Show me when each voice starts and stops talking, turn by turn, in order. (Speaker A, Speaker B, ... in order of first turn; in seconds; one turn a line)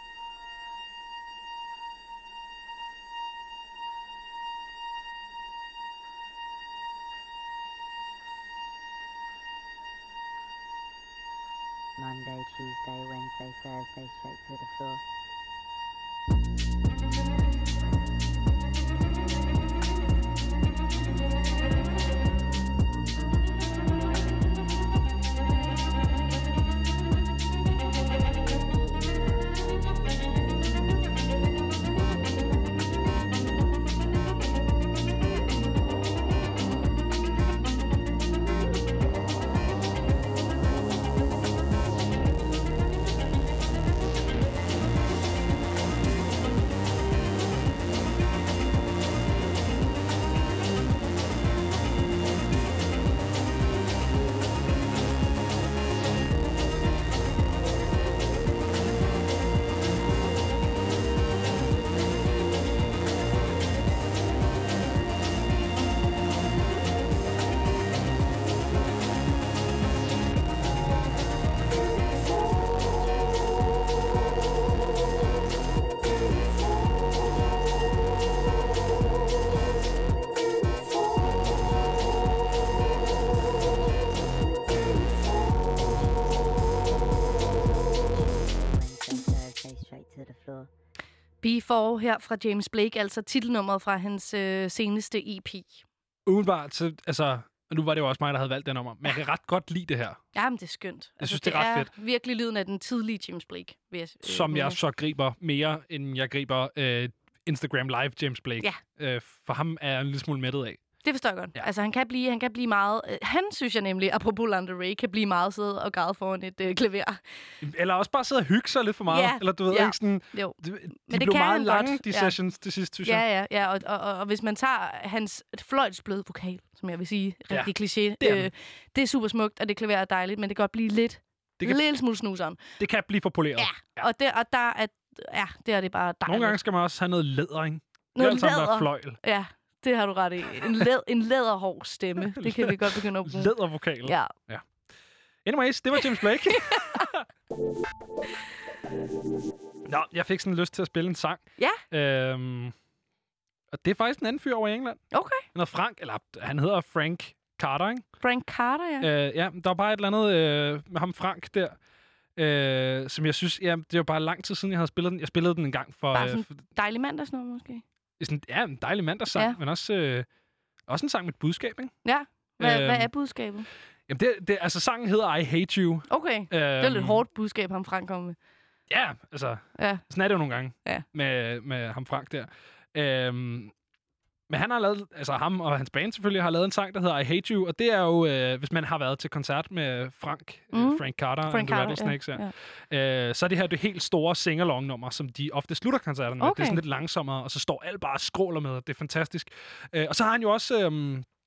Speaker A: 12.0-15.0
Speaker A: 79.6-81.9
Speaker A: 84.4-90.7
Speaker B: 91.4-95.8
Speaker C: 96.3-100.2
Speaker B: 100.3-104.8
Speaker C: 101.2-101.9
Speaker C: 104.2-110.9
Speaker B: 111.0-117.2
Speaker C: 117.6-123.2
Speaker B: 119.1-122.3
Speaker B: 123.0-132.6
Speaker C: 127.5-128.5
Speaker C: 132.8-134.0
Speaker B: 133.6-136.6
Speaker C: 136.2-139.2
Speaker B: 138.2-143.5
Speaker C: 142.3-144.7
Speaker B: 144.0-144.3
Speaker C: 145.4-147.2
Speaker B: 146.6-147.0
Speaker C: 149.8-152.7
Speaker C: 153.7-158.1
Speaker B: 155.1-155.4
Speaker B: 158.2-159.1
Speaker C: 159.0-161.8
Speaker C: 162.4-166.6
Speaker B: 166.1-167.8
Speaker C: 168.2-170.3
Speaker C: 170.9-171.9
Speaker B: 172.0-173.7
Speaker C: 172.6-173.1
Speaker C: 174.1-177.2
Speaker B: 176.1-178.4
Speaker C: 178.9-183.7
Speaker B: 179.8-180.0
Speaker C: 184.5-201.2
Speaker B: 190.7-192.5
Speaker B: 196.4-196.8